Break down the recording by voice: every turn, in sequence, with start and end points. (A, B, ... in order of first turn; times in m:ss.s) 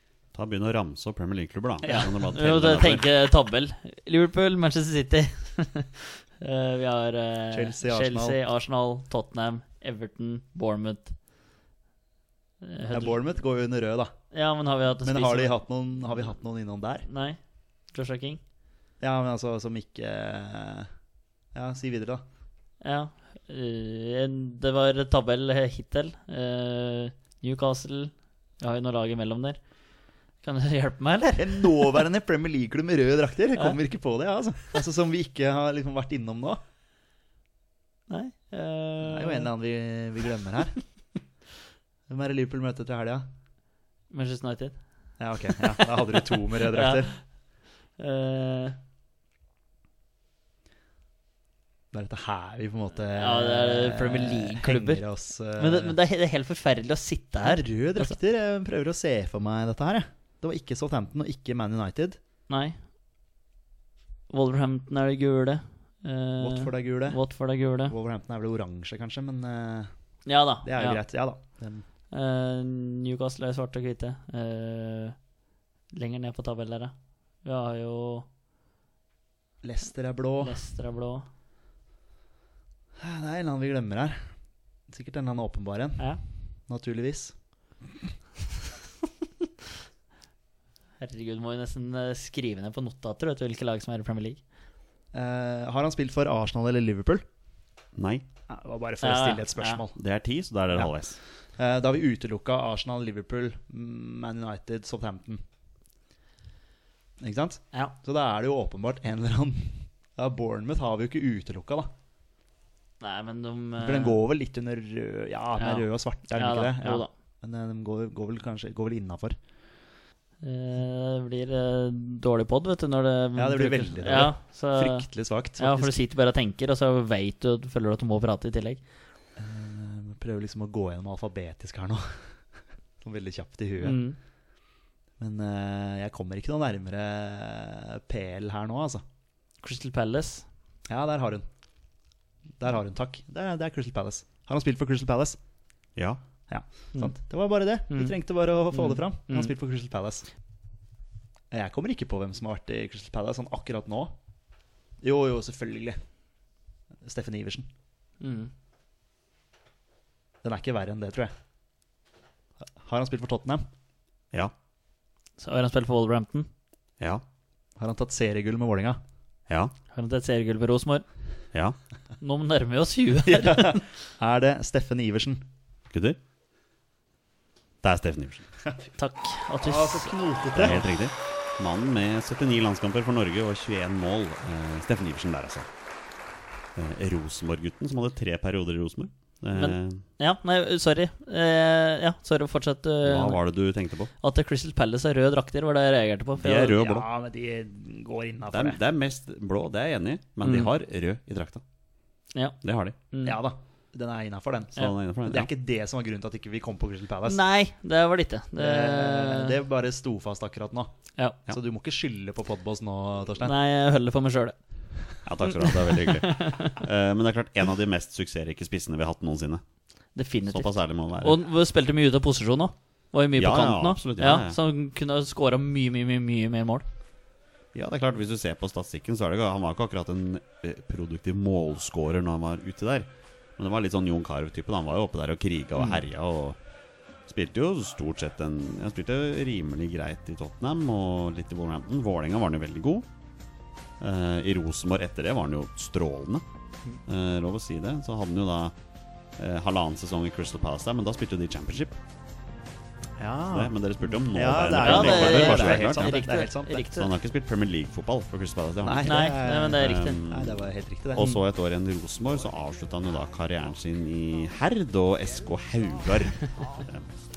0:00.3-0:03.0 A
0:01.8-0:11.2 B
0:07.5-0:08.4 C
0:12.6-0:13.2 B
0:12.9-0:14.1 C
0:14.3-0:15.6 B
0:15.0-0:17.1 C
0:17.1-0:17.4 B
0:17.9-0:18.4 B
0:19.0-0:20.9 C
0:21.5-0:22.2 C
0:22.8-0:29.6 B
0:30.4-0:32.0 B
0:31.4-0:36.6 C
0:38.1-0:39.5 B
0:39.0-0:40.8 C
0:42.1-0:43.3 C
0:44.1-0:44.8 B
0:45.2-0:47.2 C
0:45.5-0:47.2 B
0:48.0-0:48.8 B
0:51.9-0:56.0 C
0:53.2-0:55.0 B
0:55.6-0:58.2 B
0:57.4-1:02.2 C
1:02.5-1:02.8 B
1:04.3-1:08.0 B
1:06.4-1:07.2 C
1:07.8-1:09.9 C
1:10.3-1:11.0 B
1:10.6-1:11.8 C
1:12.1-1:15.2 B
1:15.9-1:18.3 B
1:19.6-1:20.6 C
1:20.4-1:21.3 B
1:23.0-1:24.4 C
1:24.9-1:27.4 C
1:31.0-1:34.4 B
1:35.1-1:37.2 C
1:38.0-1:38.2 A
1:38.5-1:40.0 C
1:39.0-1:39.8 B
1:40.0-1:41.2 A
1:41.6-1:45.4 C
1:47.2-1:51.9 C
1:53.0-1:54.2 B
1:53.8-1:59.4 C
1:55.6-1:57.1 B
2:00.4-2:08.8 B
2:03.4-2:06.0 C
2:09.4-2:12.4 C
2:13.0-2:14.0 C
2:13.8-2:14.2 B
2:15.2-2:19.0 C
2:19.6-2:20.5 B
2:20.9-2:21.5 C
2:22.6-2:25.4 C
2:26.0-2:26.2 A
2:26.5-2:30.3 C
2:27.9-2:28.1 B
2:28.7-2:29.5 B
2:31.5-2:34.1 C
2:35.0-2:36.0 C
2:37.0-2:37.7 C
2:38.2-2:38.5 B
2:40.4-2:41.3 C
2:42.6-2:43.6 C
2:45.4-2:46.5 B
2:47.8-2:49.0 C
2:49.5-2:49.7 A
2:49.9-2:51.0 B
2:51.5-2:51.8 A
2:52.2-2:53.9 B
2:53.3-2:55.4 C
2:55.9-2:56.2 A
2:57.8-2:58.5 A
2:59.0-3:00.1 B
2:59.6-3:00.9 C
3:00.5-3:05.7 A
3:06.8-3:10.0 A
3:09.5-3:13.4 B
3:13.0-3:14.1 A
3:14.2-3:16.9 B
3:16.4-3:17.0 A
3:16.8-3:18.8 C
3:18.5-3:21.6 A
3:20.4-3:20.7 B
3:22.6-3:23.0 A
3:23.1-3:23.4 B
3:23.2-3:27.4 C
3:24.8-3:25.5 A
3:27.2-3:29.6 B
3:28.6-3:30.9 C
3:31.5-3:33.6 C
3:33.4-3:34.6 B
3:35.2-3:39.6 A
3:35.9-3:36.8 B
3:40.2-3:46.9 B
3:40.5-3:41.4 A
3:43.4-3:44.6 A
3:47.7-3:56.6 A
3:57.3-4:03.1 A
4:04.0-4:06.4 A
4:07.1-4:08.8 A
4:09.4-4:12.0 A
4:13.2-4:16.8 C
4:13.5-4:16.2 A
4:14.8-4:17.1 B
4:16.9-4:27.1 A
4:18.8-4:21.4 C
4:19.1-4:20.2 B